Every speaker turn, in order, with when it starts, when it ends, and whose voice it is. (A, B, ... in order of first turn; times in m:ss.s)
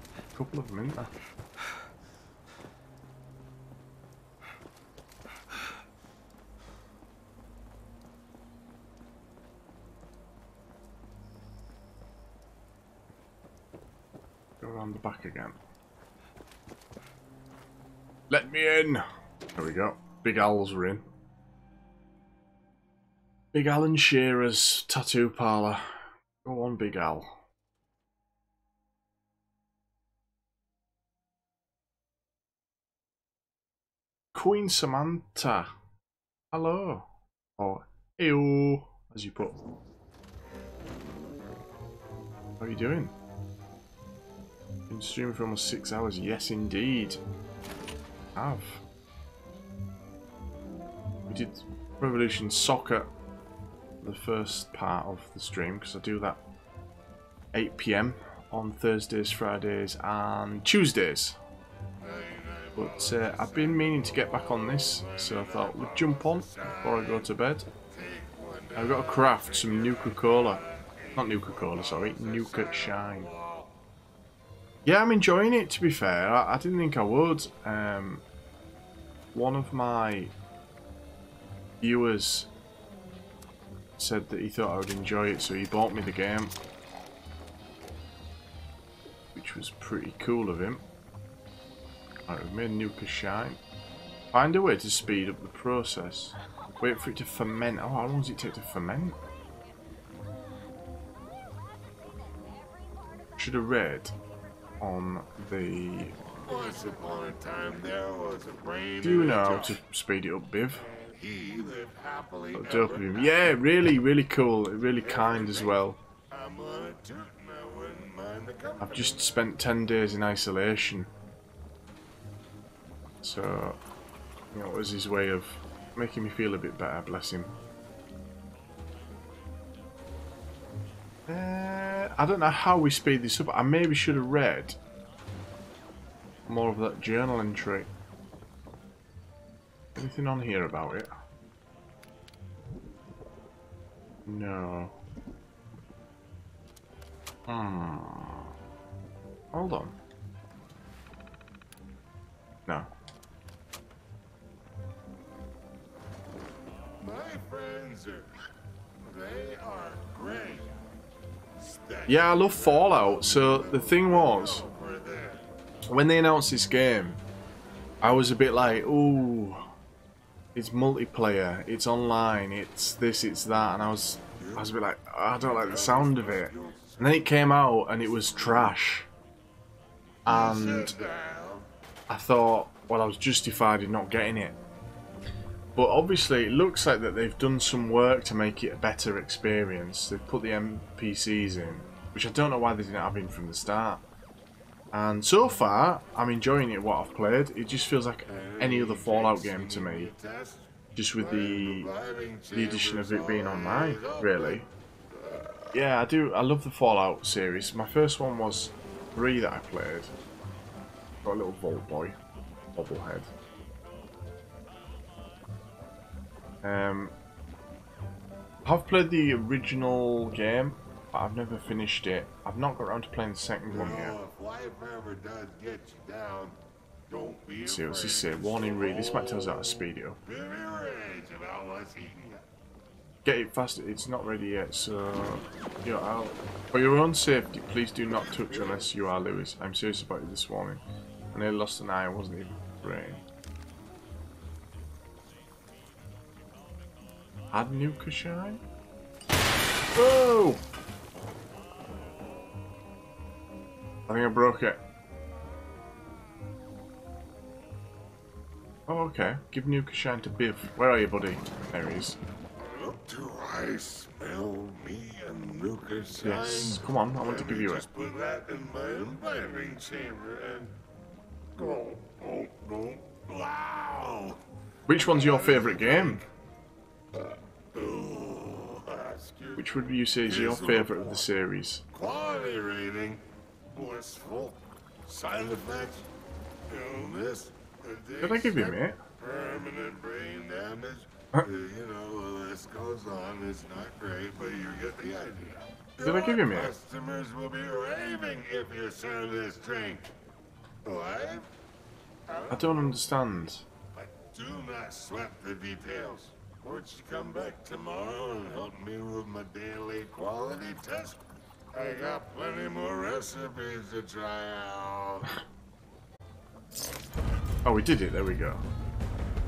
0:00.3-0:01.1 A
0:14.6-0:15.6 A
0:18.3-0:21.0 A
0:23.5-0:27.4 A
0:34.3-0:35.7 A
0:36.5-0:39.6 A
0:42.6-0:43.1 A
0:44.9-0:47.2 A
0:48.4-0:48.8 A
0:51.3-0:53.1 A
0:54.0-0:56.4 A
0:57.5-1:01.4 A
1:02.0-1:07.3 B
1:02.8-1:07.7 A
1:07.8-1:13.7 B
1:08.8-1:10.6 A
1:11.2-1:13.3 A
1:14.8-1:18.2 A
1:19.3-1:20.3 A
1:21.8-1:22.5 A
1:24.0-1:26.5 A
1:29.3-1:30.8 A
1:32.3-1:33.6 A
1:34.3-1:39.2 A
1:43.4-1:44.1 A
1:44.8-1:46.2 A
1:46.5-1:49.8 B
1:49.0-1:50.9 A
1:50.8-1:53.6 B
1:52.5-1:56.0 A
1:55.0-1:59.2 B
1:58.8-2:01.1 A
2:03.2-2:03.8 A
2:04.5-2:07.5 A
2:11.3-2:14.8 A
2:16.5-2:17.9 A
2:20.0-2:21.1 A
2:24.3-2:25.0 A
2:27.5-2:28.5 A
2:29.5-2:30.0 A
2:37.0-2:38.3 B
2:39.1-2:40.8 B
2:41.6-2:45.5 B
2:42.1-2:44.6 A
2:45.9-2:47.2 A
2:48.0-2:49.7 A
2:50.6-2:59.1 A
2:54.4-2:54.7 B
2:55.4-2:57.3 B
3:00.3-3:01.0 A
3:00.3-3:01.7 B
3:02.1-3:04.6 A
3:05.8-3:14.0 A
3:14.9-3:20.1 A
3:18.2-3:24.6 B
3:21.0-3:21.9 A
3:22.5-3:24.7 A
3:25.7-3:30.1 A
3:31.2-3:32.2 A
3:32.7-3:33.3 A
3:36.6-3:37.1 A
3:38.7-3:44.2 A
3:43.7-3:46.6 B
3:47.1-3:49.7 B
3:47.6-3:50.2 A
3:50.3-3:52.4 B
3:53.2-4:00.8 A
4:01.3-4:03.2 A
4:07.5-4:08.6 A
4:10.0-4:10.6 A
4:14.1-4:14.8 A
4:18.9-4:22.2 A
4:22.6-4:30.8 B
4:26.2-4:27.9 A
4:31.6-4:34.4 B
4:34.9-4:36.2 A
4:34.9-4:36.3 B
4:37.2-4:41.3 B
4:39.6-4:41.8 A
4:41.9-4:43.2 B
4:43.7-4:46.1 B
4:46.7-5:00.1 B
4:48.2-4:49.0 A
4:56.0-4:56.7 A
5:00.8-5:01.5 B
5:02.3-5:03.0 B
5:02.5-5:03.7 A
5:04.0-5:11.2 B
5:11.7-5:15.3 B
5:17.6-5:18.6 A